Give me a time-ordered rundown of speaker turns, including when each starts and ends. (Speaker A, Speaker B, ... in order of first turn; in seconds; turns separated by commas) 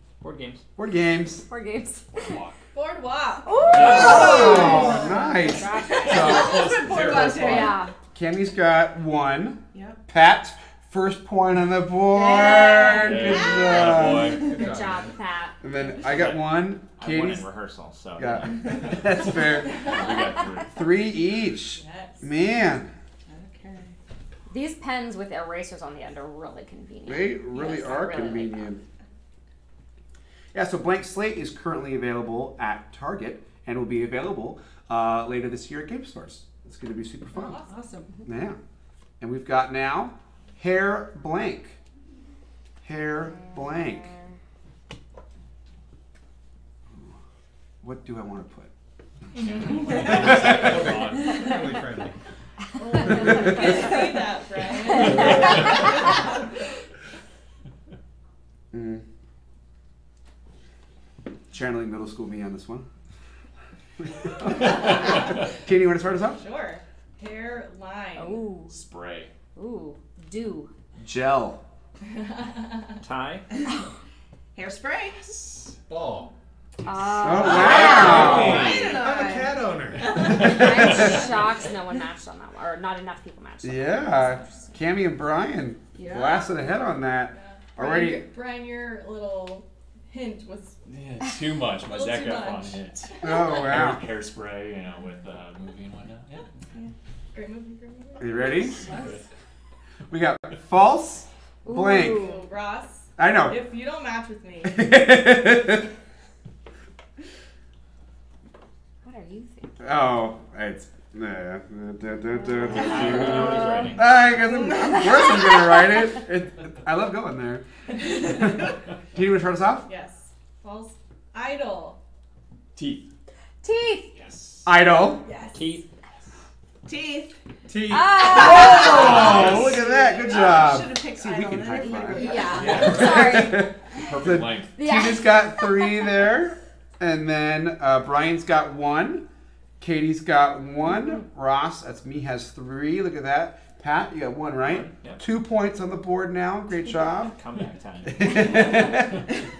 Speaker A: 0.2-0.6, Speaker B: 0.8-1.4, Speaker C: 1.4-2.1, Speaker D: 2.1-2.6, Speaker E: 2.7-3.7, Speaker C: 3.4-6.6, Speaker D: 3.6-4.6, Speaker B: 3.8-6.6, Speaker F: 3.8-5.2, Speaker F: 5.9-7.8, Speaker D: 6.0-7.6, Speaker G: 6.8-7.7, Speaker C: 7.4-7.9, Speaker B: 8.1-14.4, Speaker F: 9.7-10.0, Speaker F: 12.1-14.5, Speaker D: 12.9-14.5, Speaker C: 13.2-15.6, Speaker G: 13.9-15.2, Speaker B: 15.6-17.5, Speaker A: 16.0-18.9, Speaker B: 18.2-19.9, Speaker D: 19.6-20.9, Speaker E: 19.8-20.2, Speaker B: 20.7-22.9, Speaker E: 21.7-22.3, Speaker F: 23.3-23.9, Speaker C: 24.5-28.7, Speaker B: 27.1-28.8, Speaker B: 30.5-37.6, Speaker E: 37.3-38.1, Speaker F: 37.6-38.1, Speaker B: 38.2-38.6, Speaker B: 39.2-41.8, Speaker B: 42.8-44.1, Speaker C: 43.4-44.1, Speaker B: 47.8-48.7, Speaker E: 49.4-49.8, Speaker D: 49.4-51.5, Speaker G: 49.9-52.1, Speaker E: 52.7-56.1, Speaker B: 53.2-53.5, Speaker B: 55.0-55.7, Speaker D: 55.3-55.8, Speaker B: 58.7-59.0, Speaker B: 61.5-62.9, Speaker B: 64.4-66.4, Speaker E: 64.4-65.3, Speaker E: 66.1-68.5, Speaker C: 68.1-68.7, Speaker D: 68.7-69.3, Speaker C: 69.5-70.7, Speaker B: 71.0-71.6, Speaker E: 72.1-72.9, Speaker A: 73.0-73.5, Speaker F: 74.5-75.5, Speaker G: 75.9-76.3, Speaker C: 76.8-78.5, Speaker B: 77.2-78.7, Speaker F: 77.4-80.8, Speaker D: 77.5-79.0, Speaker G: 77.7-80.8, Speaker A: 77.7-78.8, Speaker C: 80.2-84.7, Speaker B: 80.8-81.2, Speaker B: 83.6-88.3, Speaker F: 85.9-86.6, Speaker E: 87.3-90.8, Speaker D: 90.8-96.5, Speaker E: 91.8-93.8, Speaker B: 93.2-94.0, Speaker E: 97.3-99.2, Speaker B: 98.2-98.8, Speaker D: 98.6-99.2, Speaker B: 100.1-102.3, Speaker C: 101.6-102.5, Speaker E: 102.1-104.9, Speaker B: 103.2-103.6, Speaker B: 104.6-105.9, Speaker C: 109.0-109.7, Speaker B: 109.8-117.6, Speaker C: 112.3-116.1, Speaker A: 112.6-114.3, Speaker E: 114.4-115.2, Speaker E: 117.9-118.7, Speaker B: 118.3-118.6, Speaker B: 119.1-119.9, Speaker E: 119.8-122.0, Speaker D: 122.8-123.0, Speaker C: 123.6-124.2, Speaker D: 124.1-124.7, Speaker B: 124.6-125.2, Speaker E: 125.2-125.6, Speaker A: 125.5-125.8, Speaker F: 126.8-127.4, Speaker G: 127.7-128.6, Speaker C: 127.8-129.3, Speaker F: 128.2-132.9, Speaker B: 128.3-139.2, Speaker D: 128.9-129.8, Speaker G: 129.4-129.7, Speaker C: 131.8-134.0, Speaker D: 132.5-133.3, Speaker G: 132.7-133.1, Speaker D: 134.0-134.8, Speaker C: 134.7-136.2, Speaker B: 139.8-147.3, Speaker A: 144.6-145.2, Speaker A: 147.2-148.9, Speaker B: 148.2-149.2